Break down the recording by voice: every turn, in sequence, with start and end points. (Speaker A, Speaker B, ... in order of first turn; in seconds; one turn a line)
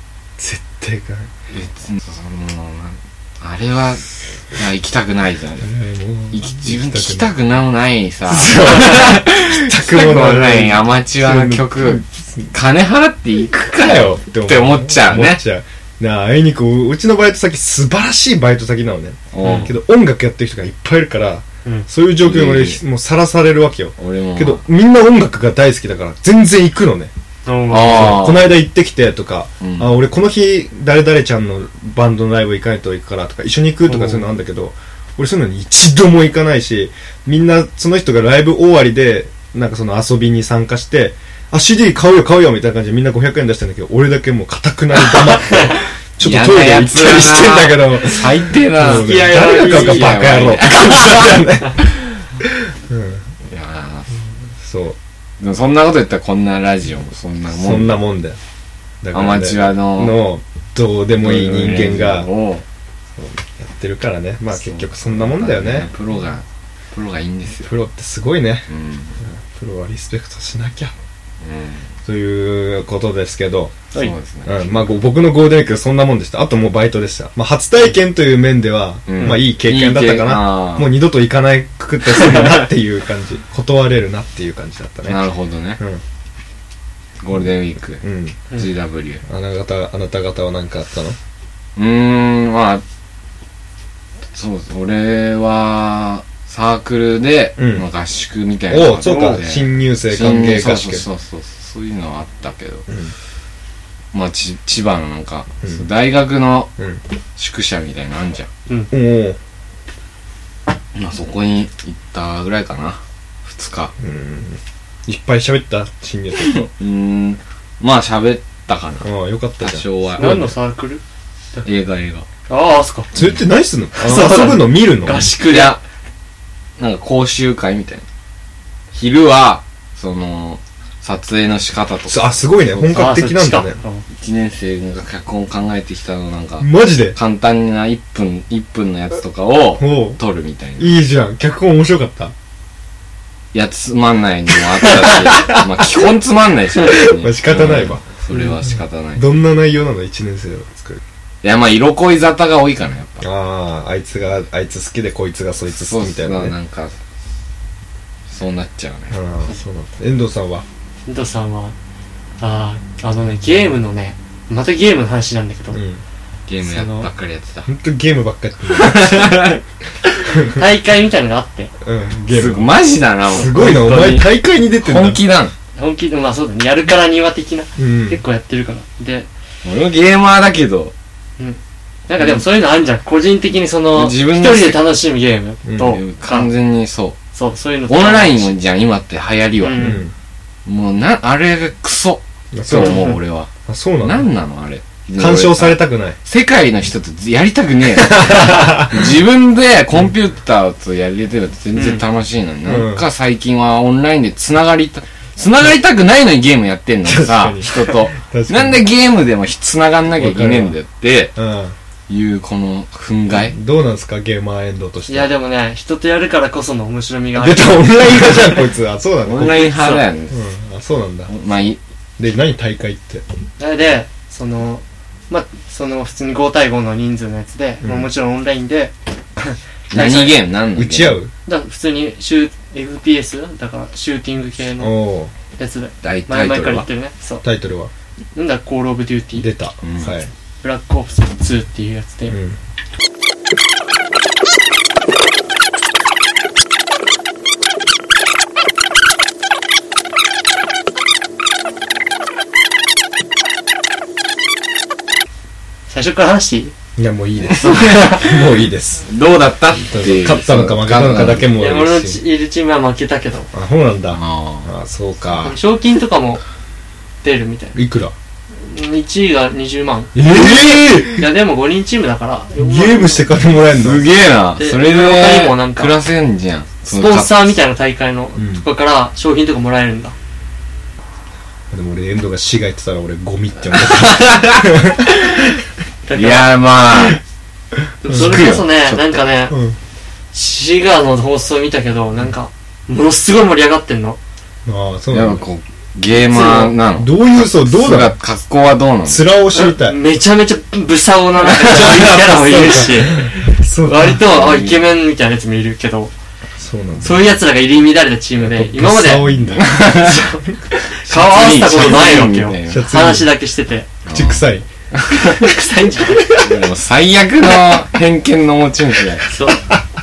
Speaker A: 0.4-1.3
Speaker B: 1.5-5.7
Speaker A: 5.6-7.3
Speaker B: 6.3-15.4
Speaker A: 8.2-12.5
Speaker A: 13.8-27.1
Speaker B: 19.3-19.7
Speaker C: 19.4-19.7
Speaker B: 22.2-22.8
Speaker B: 24.0-24.6
Speaker C: 27.4-28.3
Speaker B: 27.7-28.6
Speaker A: 27.9-53.2
Speaker B: 29.6-30.0
Speaker C: 33.8-34.3
Speaker C: 45.5-45.7
Speaker B: 46.2-51.4
Speaker C: 48.9-50.1
Speaker B: 53.5-54.2
Speaker A: 54.6-55.0
Speaker B: 55.4-58.0
Speaker A: 57.5-58.4
Speaker A: 59.0-62.3
Speaker B: 59.1-60.2
Speaker B: 61.2-62.6
Speaker A: 63.2-65.9
Speaker B: 64.5-67.7
Speaker A: 67.6-68.7
Speaker B: 68.7-69.2
Speaker A: 69.2-70.9
Speaker B: 71.4-71.9
Speaker A: 72.0-73.9
Speaker B: 73.9-74.7
Speaker A: 74.4-85.2
Speaker B: 79.1-80.9
Speaker B: 85.0-85.8
Speaker B: 87.2-89.2
Speaker A: 88.0-88.4
Speaker A: 89.2-91.2
Speaker B: 91.8-92.8
Speaker B: 94.3-102.8
Speaker A: 97.6-97.9
Speaker A: 98.7-101.1
Speaker A: 102.9-103.1
Speaker B: 104.1-106.7
Speaker A: 106.8-107.0
Speaker B: 107.4-108.5
Speaker A: 108.9-109.4
Speaker B: 110.9-113.9
Speaker A: 114.0-116.7
Speaker B: 116.5-120.3
Speaker A: 119.0-120.5
Speaker C: 120.2-121.0
Speaker B: 121.6-122.2
Speaker C: 122.5-123.1
Speaker A: 123.1-125.3
Speaker B: 123.2-123.4
Speaker C: 123.9-125.8
Speaker B: 125.4-125.8
Speaker B: 126.8-128.0
Speaker B: 128.9-132.3
Speaker A: 132.1-133.8
Speaker C: 132.7-134.0
Speaker B: 134.1-141.0
Speaker A: 136.6-137.2
Speaker A: 139.8-140.2
Speaker A: 140.8-142.3
Speaker B: 143.5-149.3
Speaker A: 144.8-146.1
Speaker A: 146.8-151.0
Speaker B: 151.4-153.2
Speaker A: 153.2-156.6
Speaker B: 155.7-156.9
Speaker B: 158.3-159.2
Speaker A: 159.1-160.7
Speaker C: 161.1-161.7
Speaker C: 162.4-165.8
Speaker A: 165.7-166.0
Speaker B: 166.5-167.7
Speaker C: 166.6-167.1
Speaker A: 167.7-169.5
Speaker B: 168.7-169.6
Speaker C: 170.3-171.7
Speaker A: 171.8-172.8
Speaker B: 172.3-175.5
Speaker A: 173.3-175.2
Speaker C: 173.4-174.1
Speaker C: 175.8-179.3
Speaker A: 177.8-178.2
Speaker B: 179.6-180.9
Speaker C: 181.4-186.5
Speaker B: 183.9-184.9
Speaker A: 185.6-186.0
Speaker B: 185.8-187.2
Speaker C: 187.3-188.5
Speaker B: 187.9-190.0
Speaker C: 189.6-190.0
Speaker A: 189.8-190.1
Speaker B: 190.7-193.5
Speaker A: 192.5-193.1
Speaker C: 192.7-193.2
Speaker A: 193.7-194.3
Speaker B: 194.0-211.3
Speaker A: 195.2-196.2
Speaker A: 198.0-199.1
Speaker C: 201.7-202.0
Speaker A: 202.6-203.1
Speaker A: 207.0-208.9
Speaker A: 210.1-210.8
Speaker A: 211.3-211.8
Speaker B: 212.1-213.6
Speaker A: 213.3-215.3
Speaker C: 215.1-218.6
Speaker A: 217.3-219.7
Speaker B: 219.2-220.4
Speaker C: 219.5-220.0
Speaker A: 220.3-221.3
Speaker B: 221.3-221.8
Speaker A: 222.2-223.2
Speaker C: 223.6-230.4
Speaker A: 227.8-228.1
Speaker B: 229.9-231.2
Speaker A: 230.7-231.3
Speaker C: 231.4-235.0
Speaker A: 234.8-235.3
Speaker C: 235.6-237.4
Speaker B: 236.0-236.9
Speaker A: 237.4-237.9
Speaker C: 238.3-239.5
Speaker A: 239.3-240.3
Speaker B: 239.8-240.1
Speaker C: 240.6-242.4
Speaker A: 242.3-242.6
Speaker C: 255.9-256.7
Speaker A: 256.9-259.1
Speaker B: 257.5-258.4
Speaker C: 257.8-258.2
Speaker B: 259.1-261.5
Speaker A: 259.8-262.2
Speaker C: 261.5-263.5
Speaker A: 263.5-265.6
Speaker B: 264.1-264.7
Speaker C: 265.4-266.4
Speaker C: 267.2-267.8
Speaker A: 267.7-268.1
Speaker C: 268.5-273.4
Speaker A: 270.1-271.3
Speaker A: 272.6-274.1
Speaker B: 273.7-277.6
Speaker C: 274.6-276.0
Speaker C: 276.8-280.1
Speaker A: 278.3-278.6
Speaker A: 281.7-285.6
Speaker B: 283.7-285.5
Speaker C: 286.1-286.6
Speaker B: 286.1-287.2
Speaker C: 288.0-289.6
Speaker A: 288.0-288.6
Speaker B: 288.1-289.2
Speaker A: 289.5-289.8
Speaker C: 290.3-294.2
Speaker A: 294.6-295.4
Speaker B: 295.1-299.3
Speaker C: 296.1-296.8
Speaker A: 296.9-298.1
Speaker A: 299.0-300.0
Speaker C: 299.5-306.1
Speaker A: 301.5-304.2
Speaker B: 304.2-304.9
Speaker A: 306.6-307.4
Speaker C: 307.0-313.9
Speaker A: 308.4-310.5
Speaker B: 309.5-310.2
Speaker B: 310.9-312.9
Speaker A: 312.6-313.3
Speaker B: 314.1-314.4
Speaker A: 314.1-314.7
Speaker C: 315.1-316.4
Speaker B: 316.3-319.2
Speaker C: 319.3-319.6
Speaker A: 319.5-319.8